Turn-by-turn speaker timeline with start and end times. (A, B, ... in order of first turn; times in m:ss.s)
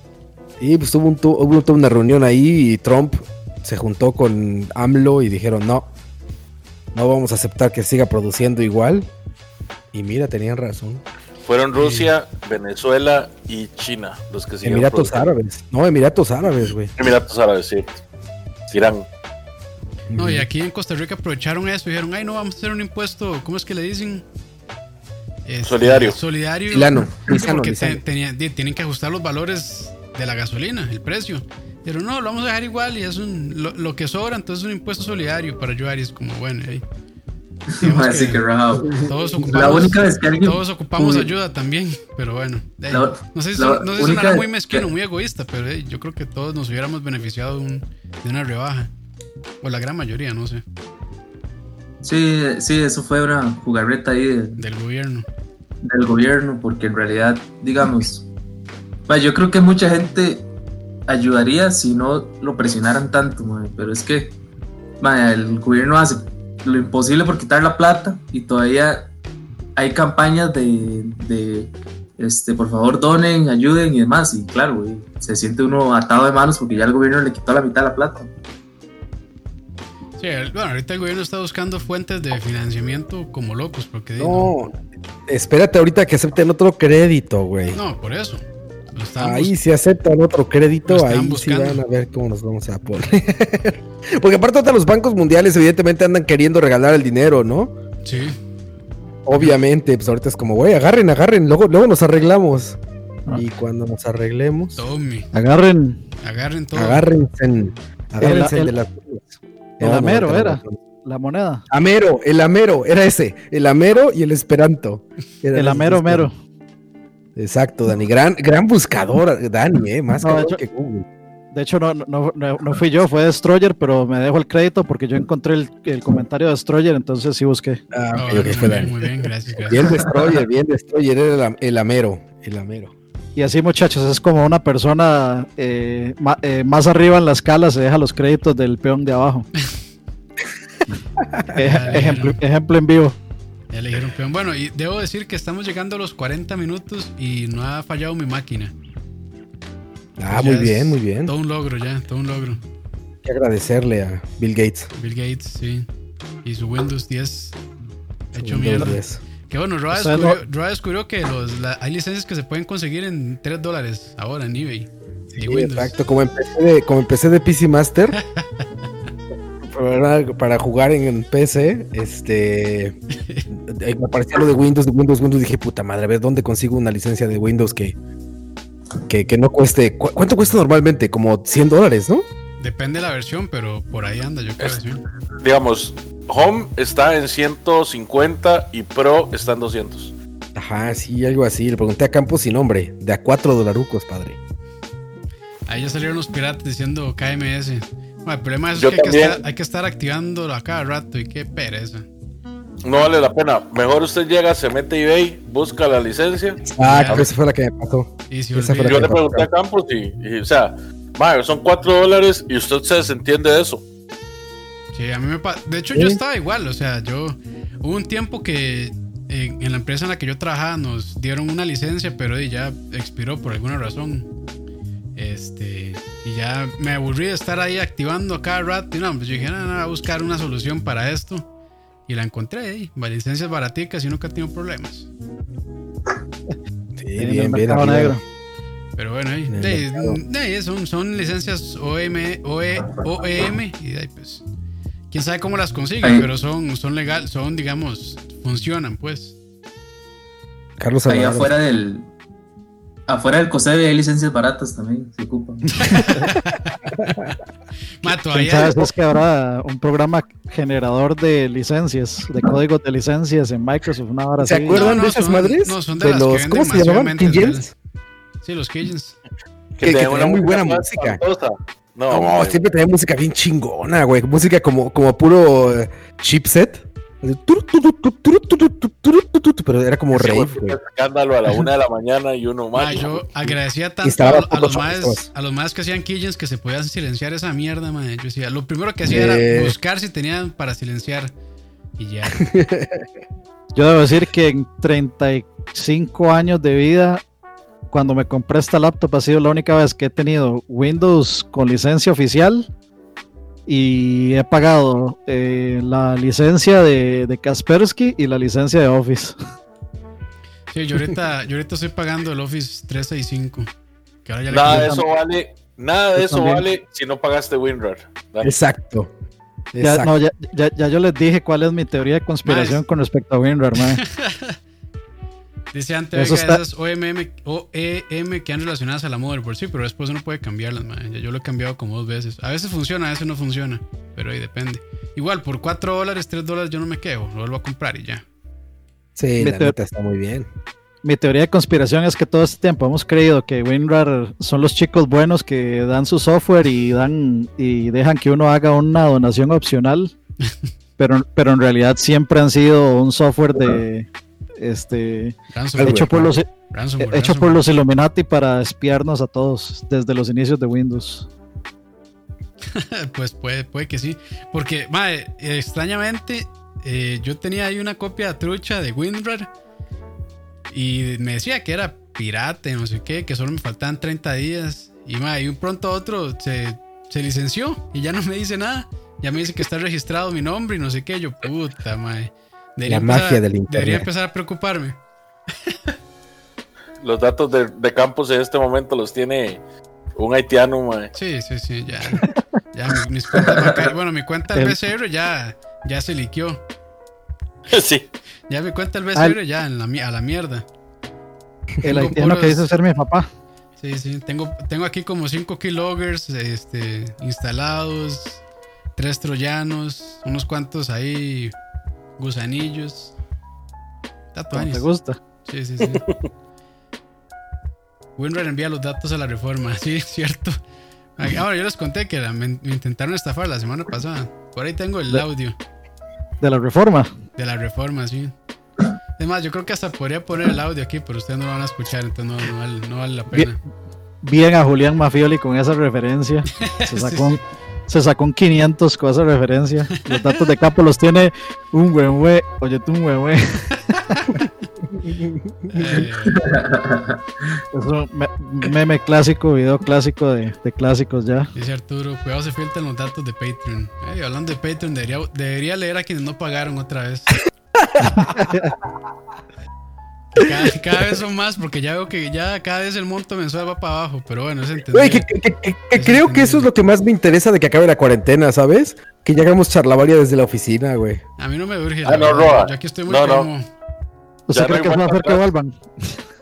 0:00.6-0:05.9 A
0:06.9-0:09.1 A
0:09.9-0:11.0 A
0:11.4-0:15.3 B
0:11.8-0:12.1 C
0:14.6-0:16.9 A
0:17.0-0:18.0 B
0:18.7-0:19.1 B
0:20.1-0:20.5 A
0:20.2-0:24.2 C
0:25.5-0:36.8 C
0:25.6-0:26.2 B
0:26.7-0:28.0 A
0:37.8-0:41.3 D
0:37.8-0:48.9 C
0:38.8-0:39.4 A
0:42.9-0:44.9 D
0:49.6-0:50.6 C
0:52.0-0:54.6 D
0:54.6-0:55.3 C
0:55.8-0:58.3 D
0:59.1-1:00.5 D
1:01.1-1:04.4 D
1:05.0-1:09.1 D
1:09.8-1:18.3 D
1:20.2-1:24.6 C
1:24.2-1:27.8 A
1:27.7-1:28.4 C
1:29.0-1:29.5 C
1:29.2-1:37.7 A
1:30.9-1:31.8 C
1:38.0-1:38.4 C
1:39.3-1:42.8 A
1:43.3-1:44.8 A
1:44.8-1:45.3 C
1:45.3-1:46.0 E
1:46.2-1:47.1 C
1:46.8-1:50.8 A
1:48.2-1:48.7 E
1:49.8-1:51.6 E
1:51.7-1:56.3 A
1:55.6-1:56.3 E
1:57.4-2:01.1 A
2:00.2-2:00.6 E
2:01.5-2:07.8 E
2:07.9-2:09.1 A
2:08.2-2:10.0 C
2:09.7-2:12.9 A
2:13.4-2:19.5 E
2:21.2-2:21.5 A
2:21.5-2:23.2 E
2:21.6-2:22.4 C
2:23.7-2:28.7 C
2:30.2-2:31.3 A
2:30.3-2:32.6 C
2:33.2-2:34.9 A
2:35.0-2:35.9 C
2:36.4-2:37.6 C
2:38.3-2:45.9 C
2:38.4-2:39.2 A
2:39.9-2:40.4 E
2:45.3-2:48.2 A
2:48.2-2:48.4 C
2:49.6-2:53.0 A
2:53.2-2:53.4 C
2:53.7-2:58.0 A
2:59.1-3:02.3 A
3:02.6-3:05.0 C
3:05.4-3:10.1 B
3:10.6-3:14.4 A
3:15.7-3:22.0 C
3:18.8-3:19.4 B
3:22.8-3:27.3 B
3:26.6-3:29.5 A
3:26.8-3:27.3 C
3:28.3-3:29.2 C
3:28.8-3:33.8 B
3:34.9-3:44.3 C
3:35.9-3:36.2 A
3:45.2-3:51.5 C
3:52.1-3:55.1 C
3:57.0-3:58.2 A
3:57.2-3:58.2 E
3:59.0-4:04.4 C
3:59.5-4:00.2 A
4:05.1-4:09.4 C
4:10.8-4:11.5 A
4:11.1-4:12.1 D
4:13.1-4:16.1 D
4:15.8-4:16.2 E
4:15.9-4:16.8 C
4:17.0-4:17.3 A
4:18.0-4:18.9 C
4:18.3-4:24.8 E
4:24.4-4:27.7 A
4:24.7-4:27.7 C
4:28.4-4:29.2 C
4:29.8-4:32.6 B
4:29.8-4:31.2 A
4:32.1-4:40.8 A
4:40.1-4:43.5 B
4:42.8-4:51.3 C
4:44.0-4:45.3 A
4:49.0-4:49.8 A
4:52.0-4:52.5 C
4:52.4-4:53.0 A
4:53.8-4:57.2 E
4:57.9-5:02.7 E
5:03.7-5:09.4 E
5:10.7-5:13.7 C
5:14.2-5:15.0 C
5:14.5-5:18.6 B
5:14.7-5:15.0 E
5:16.2-5:16.6 E
5:18.4-5:19.1 A
5:19.7-5:20.1 A
5:19.8-5:24.0 E
5:22.4-5:22.8 C
5:24.0-5:24.6 C
5:25.7-5:38.2 C
5:26.2-5:26.6 E
5:39.2-5:40.5 A
5:39.4-5:39.8 E
5:41.0-5:50.1 E
5:51.0-5:54.1 E
5:54.6-5:56.5 E
5:55.5-5:57.6 C
5:55.8-5:56.3 A
5:57.0-6:01.3 E
6:02.7-6:09.5 C
6:10.7-6:25.0 C
6:22.9-6:24.1 A
6:25.7-6:25.9 C
6:27.0-6:29.6 B
6:30.2-6:31.1 B
6:31.2-6:36.6 C
6:37.7-6:38.1 B
6:38.5-6:40.6 C
6:41.8-6:43.3 E
6:41.8-6:42.7 C
6:43.8-6:48.4 C
6:49.0-6:51.5 C
6:52.2-6:53.1 C
6:54.3-6:54.9 C
6:54.5-6:55.2 E
6:55.5-6:56.1 C
6:58.2-7:00.6 C
7:01.2-7:05.6 C
7:06.4-7:07.1 E
7:07.4-7:08.3 C
7:09.2-7:13.6 C
7:14.2-7:23.8 E
7:16.6-7:17.4 C
7:20.1-7:20.4 C
7:25.0-7:26.1 A
7:25.7-7:26.5 C
7:26.3-7:27.2 D
7:27.7-7:31.5 E
7:31.6-7:37.4 C
7:37.8-7:38.3 A
7:38.2-7:38.7 E
7:40.3-7:45.3 C
7:44.9-7:51.2 A
7:45.9-7:46.7 C
7:51.4-7:53.6 C
7:52.0-7:53.5 B
7:54.5-7:56.2 E
7:54.5-7:55.4 B